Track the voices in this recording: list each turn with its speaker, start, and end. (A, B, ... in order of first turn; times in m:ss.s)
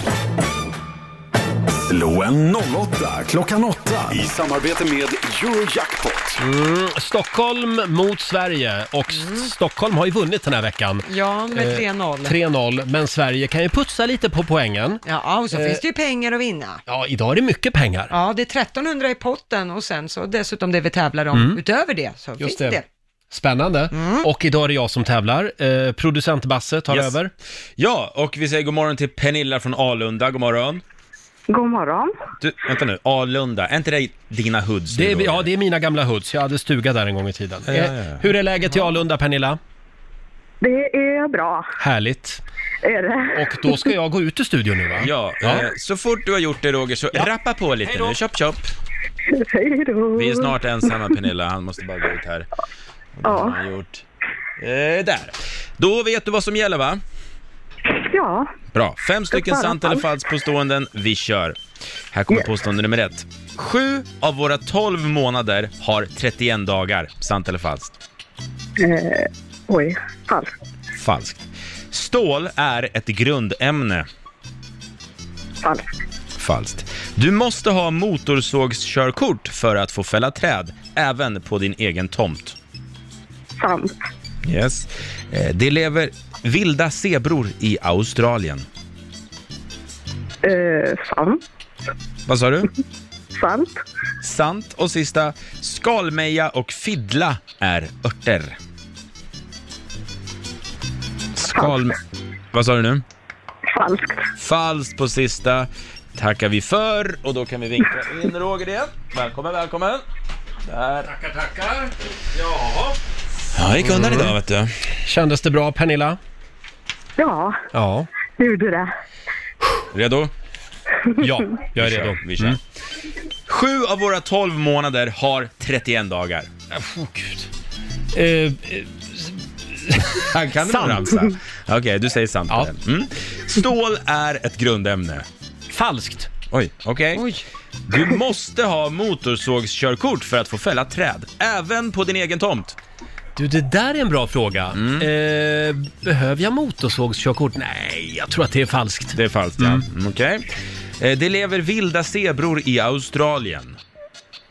0:01.8-0:06.4 A
0:06.4-0:15.8 B
0:11.1-0:12.4 C
0:15.0-0:16.8 C
0:16.9-0:18.1 B
0:18.1-0:22.8 C
0:21.3-0:21.6 B
0:22.4-0:22.8 B
0:23.3-0:27.3 B
0:23.9-0:24.3 C
0:26.9-0:27.2 D
0:27.8-0:30.8 D
0:31.5-0:32.1 E
0:32.4-0:35.5 D
0:34.9-0:39.6 B
0:37.7-0:38.2 D
0:40.6-0:41.7 E
0:41.8-0:42.4 B
0:42.8-0:43.5 E
0:43.3-0:45.7 B
0:45.0-0:48.6 D
0:47.9-0:48.1 B
0:49.3-0:51.1 E
0:50.2-0:52.5 D
0:53.2-0:54.0 D
0:53.2-0:53.6 E
0:54.6-0:57.0 D
0:57.9-0:58.5 E
0:58.7-1:01.6 D
0:59.3-1:00.1 E
1:02.1-1:07.9 D
1:08.8-1:10.5 E
1:10.9-1:14.1 D
1:16.4-1:22.6 D
1:23.6-1:23.9 E
1:24.4-1:28.7 D
1:30.4-1:31.4 E
1:32.3-1:32.7 D
1:33.4-1:33.8 E
1:34.2-1:38.6 D
1:41.4-1:42.0 D
1:41.5-1:41.8 E
1:42.5-1:43.0 D
1:43.7-1:44.3 E
1:44.4-1:50.0 D
1:50.7-1:51.1 D
1:51.0-1:53.0 B
1:53.6-1:54.7 D
1:53.8-1:54.4 B
1:55.0-1:56.2 B
1:57.2-1:57.6 E
1:57.7-1:58.1 B
1:58.4-1:58.9 E
1:59.9-2:00.3 D
2:01.2-2:02.6 B
2:01.8-2:02.6 D
2:03.5-2:06.5 D
2:06.7-2:07.5 B
2:08.1-2:11.3 B
2:10.3-2:15.3 D
2:15.7-2:16.3 B
2:16.5-2:17.3 D
2:17.2-2:17.4 C
2:17.9-2:22.8 D
2:23.4-2:29.8 B
2:24.8-2:25.1 D
2:29.2-2:30.5 D
2:31.0-2:33.8 D